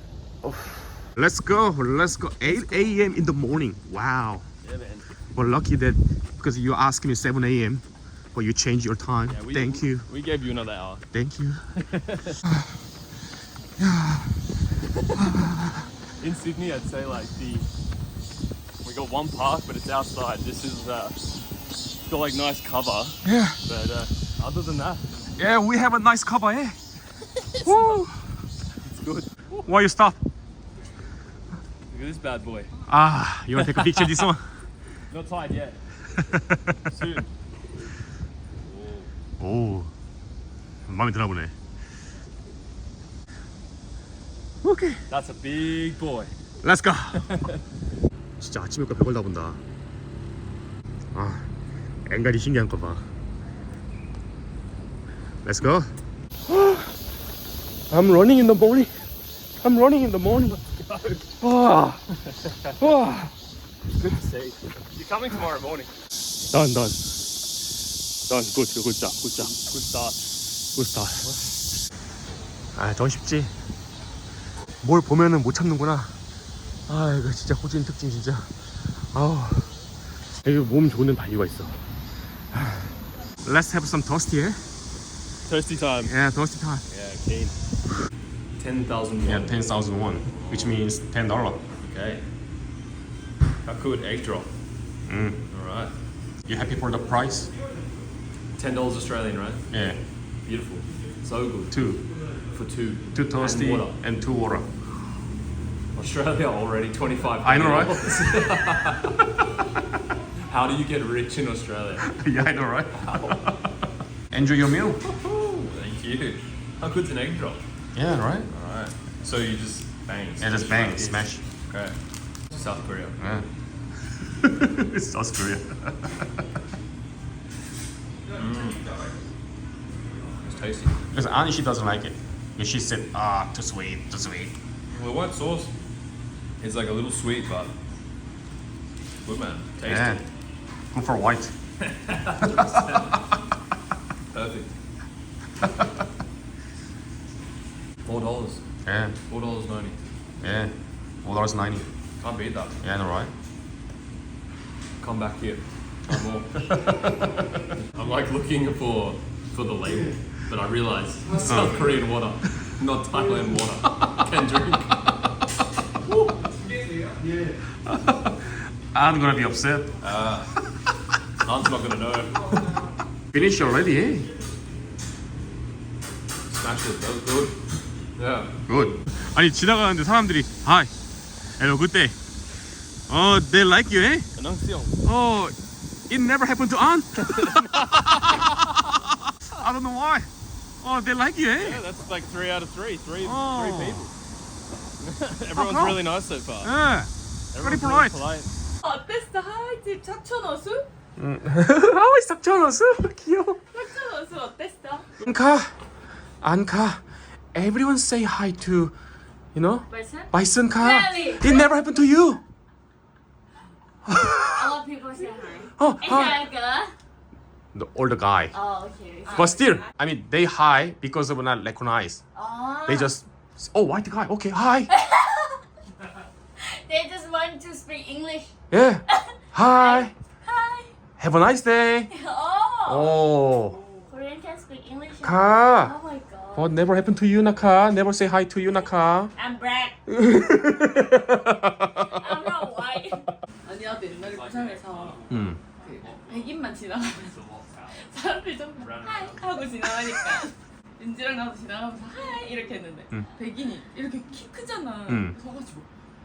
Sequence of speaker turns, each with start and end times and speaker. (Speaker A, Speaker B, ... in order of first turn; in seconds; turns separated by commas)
Speaker A: 0.4-4.4, Speaker B: 2.5-3.0, Speaker B: 4.6-5.1, Speaker A: 5.3-10.1, Speaker B: 9.3-11.0, Speaker A: 11.1-11.6, Speaker B: 11.8-12.4, Speaker A: 12.5-12.7, Speaker A: 13.8-14.3, Speaker A: 15.2-15.8, Speaker B: 16.2-17.7, Speaker B: 18.8-21.2, Speaker B: 22.0-25.1, Speaker A: 23.2-23.6, Speaker A: 25.4-26.8, Speaker A: 27.6-28.3, Speaker B: 28.8-29.3, Speaker A: 29.6-30.2, Speaker B: 31.9-32.7, Speaker A: 32.9-34.5, Speaker B: 33.7-34.2, Speaker B: 35.1-35.8, Speaker A: 36.3-36.6, Speaker B: 36.9-37.3, Speaker B: 38.6-39.1, Speaker A: 39.4-39.9, Speaker A: 40.9-41.5, Speaker A: 44.6-45.0, Speaker B: 45.1-46.3, Speaker A: 46.6-47.4, Speaker B: 47.2-47.5, Speaker A: 48.4-49.6, Speaker A: 51.1-51.5, Speaker A: 52.1-53.0, Speaker A: 55.4-55.9, Speaker A: 56.5-56.9, Speaker A: 57.9-58.9, Speaker A: 59.6-60.6, Speaker B: 60.5-61.3, Speaker A: 61.4-62.0, Speaker B: 62.5-62.8, Speaker A: 62.8-63.3, Speaker B: 64.0-65.9, Speaker A: 66.5-67.1, Speaker A: 68.3-69.5, Speaker B: 69.4-70.2, Speaker A: 70.8-71.3, Speaker A: 72.7-73.5, Speaker A: 74.8-76.1, Speaker A: 76.9-78.5, Speaker A: 79.0-79.7, Speaker A: 80.4-81.8, Speaker A: 82.5-82.9, Speaker A: 83.4-84.6, Speaker B: 85.5-86.2, Speaker A: 86.0-86.8, Speaker B: 86.9-87.6, Speaker B: 88.6-89.6, Speaker A: 89.2-91.6, Speaker B: 90.3-90.7, Speaker B: 91.8-92.2, Speaker B: 93.6-94.5, Speaker A: 95.1-95.4, Speaker B: 95.5-95.9, Speaker A: 96.5-97.5, Speaker B: 98.6-99.9, Speaker A: 99.7-100.0, Speaker B: 100.4-101.9, Speaker A: 101.7-102.0, Speaker B: 102.5-104.0, Speaker A: 103.1-104.7, Speaker B: 106.0-109.2, Speaker A: 107.4-108.3, Speaker B: 110.5-112.1, Speaker A: 112.1-113.7, Speaker B: 113.0-113.5, Speaker A: 114.3-115.0, Speaker B: 115.0-117.6, Speaker A: 118.0-118.5, Speaker B: 118.5-123.2, Speaker A: 120.4-121.4, Speaker A: 123.2-123.5, Speaker A: 124.3-126.4, Speaker B: 128.3-129.0, Speaker B: 130.4-131.0, Speaker A: 131.1-134.5, Speaker B: 134.9-135.7, Speaker B: 136.6-137.7, Speaker B: 139.2-140.2, Speaker A: 139.8-140.2, Speaker A: 140.9-141.5, Speaker B: 141.8-143.2, Speaker A: 142.6-143.0, Speaker B: 144.3-144.7, Speaker B: 148.0-148.7, Speaker A: 148.8-149.2, Speaker B: 149.3-150.0, Speaker A: 150.4-151.9, Speaker B: 152.2-152.8, Speaker A: 152.8-153.3, Speaker B: 155.0-157.1, Speaker B: 157.8-165.2, Speaker A: 161.4-161.8, Speaker B: 166.4-167.3, Speaker A: 167.8-170.1, Speaker B: 170.0-170.6, Speaker B: 171.4-172.8, Speaker A: 173.3-174.3, Speaker B: 176.5-177.6, Speaker B: 178.2-178.5, Speaker A: 178.7-180.9, Speaker A: 181.6-182.2, Speaker A: 183.1-184.3, Speaker B: 184.3-185.0, Speaker A: 185.0-185.6, Speaker A: 186.1-190.3, Speaker B: 187.2-188.5, Speaker A: 190.8-191.8, Speaker B: 191.6-194.1, Speaker A: 193.2-194.1, Speaker B: 195.0-196.7, Speaker A: 195.5-196.0, Speaker A: 196.6-198.2, Speaker B: 197.5-198.5, Speaker C: 198.8-200.9, Speaker A: 201.2-203.6, Speaker C: 203.7-205.1, Speaker A: 205.2-205.7, Speaker A: 206.4-207.0, Speaker A: 207.5-208.9, Speaker A: 209.5-212.4, Speaker D: 209.9-211.7, Speaker A: 214.1-214.8, Speaker D: 214.4-216.9, Speaker A: 215.8-216.5, Speaker A: 217.7-218.5, Speaker D: 218.5-219.9, Speaker C: 219.3-219.6, Speaker A: 219.3-222.2, Speaker D: 222.3-223.2, Speaker A: 222.8-224.9, Speaker D: 224.9-225.6, Speaker D: 226.6-228.5, Speaker A: 228.7-230.1, Speaker D: 229.1-230.9, Speaker A: 231.2-232.1, Speaker D: 232.1-233.2, Speaker A: 232.9-233.8, Speaker D: 234.1-236.7, Speaker A: 235.2-236.0, Speaker A: 236.6-239.3, Speaker D: 239.3-240.0, Speaker A: 240.1-242.4, Speaker D: 242.0-243.3, Speaker C: 243.7-245.2, Speaker B: 243.9-248.0, Speaker A: 245.3-245.6, Speaker C: 245.8-247.3, Speaker C: 247.9-255.8, Speaker B: 248.8-249.4, Speaker A: 255.1-255.3